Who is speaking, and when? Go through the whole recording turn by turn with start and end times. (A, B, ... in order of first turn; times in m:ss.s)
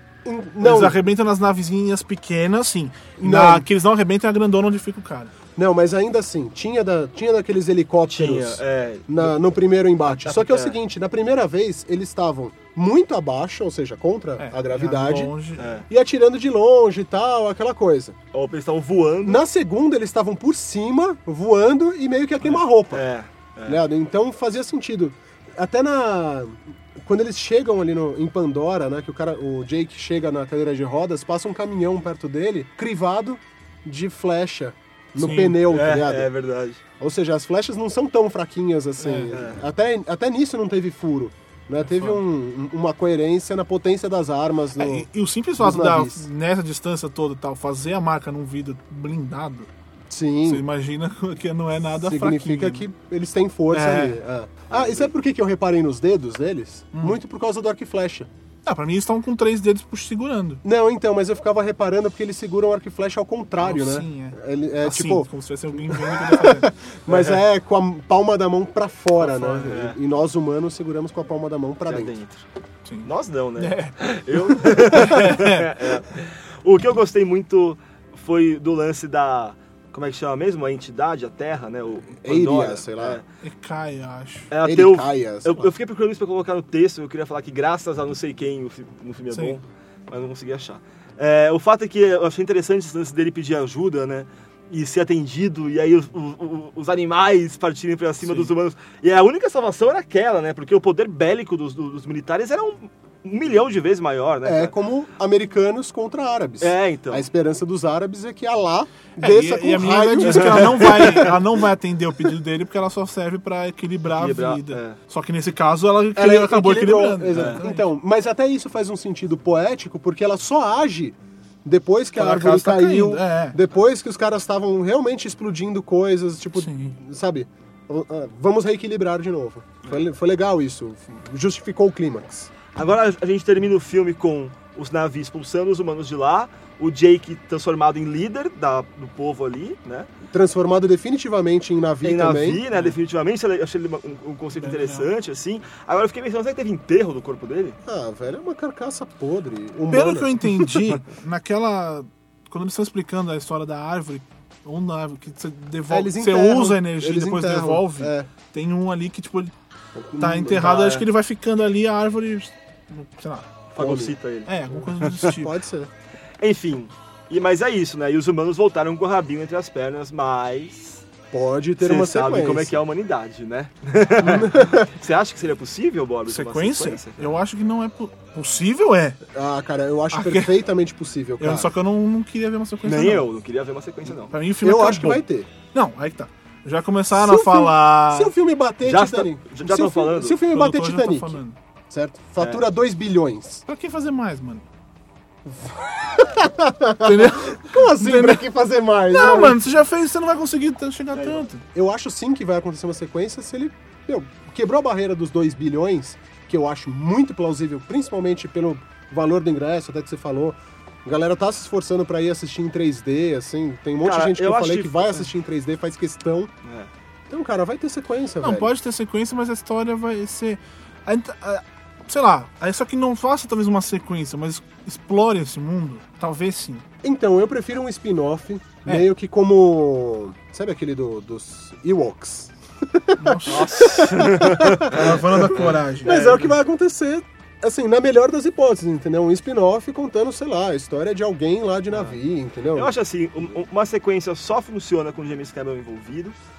0:00.2-0:01.0 A
0:00.6-0:05.3 B
0:03.2-0:03.7 A
0:05.6-0:18.2 A
0:08.1-0:09.4 C
0:10.1-0:10.8 C
0:14.4-0:15.7 B
0:15.6-0:15.8 C
0:18.3-0:19.4 C
0:19.2-0:23.0 A
0:22.9-0:23.8 C
0:23.7-0:36.3 A
0:35.2-0:35.6 B
0:35.7-0:36.8 C
0:37.0-0:46.2 A
0:39.0-0:39.3 B
0:39.3-0:39.6 C
0:41.8-0:42.2 B
0:44.8-0:49.7 B
0:50.1-0:50.6 A
0:50.4-0:52.9 B
0:52.0-0:58.3 A
0:53.7-0:54.2 B
0:58.6-1:00.6 B
1:00.6-1:12.1 A
1:03.6-1:06.7 B
1:07.1-1:07.4 C
1:09.2-1:09.8 B
1:09.6-1:10.0 C
1:11.9-1:12.4 C
1:12.8-1:16.0 B
1:13.0-1:23.2 C
1:22.2-1:23.2 A
1:23.4-1:24.5 B
1:24.5-1:44.7 C
1:24.6-1:25.7 A
1:29.3-1:29.6 B
1:38.2-1:38.5 B
1:44.4-1:51.4 A
1:46.6-1:47.3 C
1:49.2-1:57.9 B
1:50.2-1:50.9 C
1:54.1-1:55.0 C
1:56.1-2:12.5 A
1:57.3-1:57.6 C
2:02.2-2:03.6 B
2:06.5-2:07.0 B
2:12.8-2:20.1 C
2:20.3-2:22.6 A
2:22.0-2:27.8 C
2:22.7-2:23.0 B
2:24.6-2:25.1 B
2:27.8-2:30.8 A
2:29.9-2:39.5 B
2:35.9-2:38.3 A
2:40.0-2:41.0 A
2:40.2-2:43.5 B
2:40.6-2:41.0 C
2:43.7-2:45.3 C
2:43.7-2:44.1 A
2:44.4-2:45.6 B
2:44.7-2:45.9 A
2:46.4-2:51.0 C
2:51.3-2:52.8 A
2:51.8-2:57.4 C
2:54.2-2:54.8 A
2:56.3-2:59.2 B
2:59.3-3:01.7 A
3:00.1-3:00.5 B
3:01.4-3:03.3 B
3:02.8-3:04.3 C
3:04.3-3:08.3 B
3:04.6-3:05.5 A
3:07.1-3:13.6 A
3:08.8-3:10.4 C
3:10.5-3:11.6 B
3:13.7-3:14.6 B
3:15.5-3:19.6 A
3:17.0-3:18.5 B
3:19.1-3:21.6 B
3:21.1-3:21.4 C
3:21.7-3:36.5 A
3:34.0-3:35.3 C
3:36.6-3:36.9 C
3:37.3-3:38.7 A
3:38.4-3:46.8 B
3:47.0-4:02.9 A
3:53.2-3:56.2 B
3:53.4-3:56.5 C
4:02.7-4:06.4 C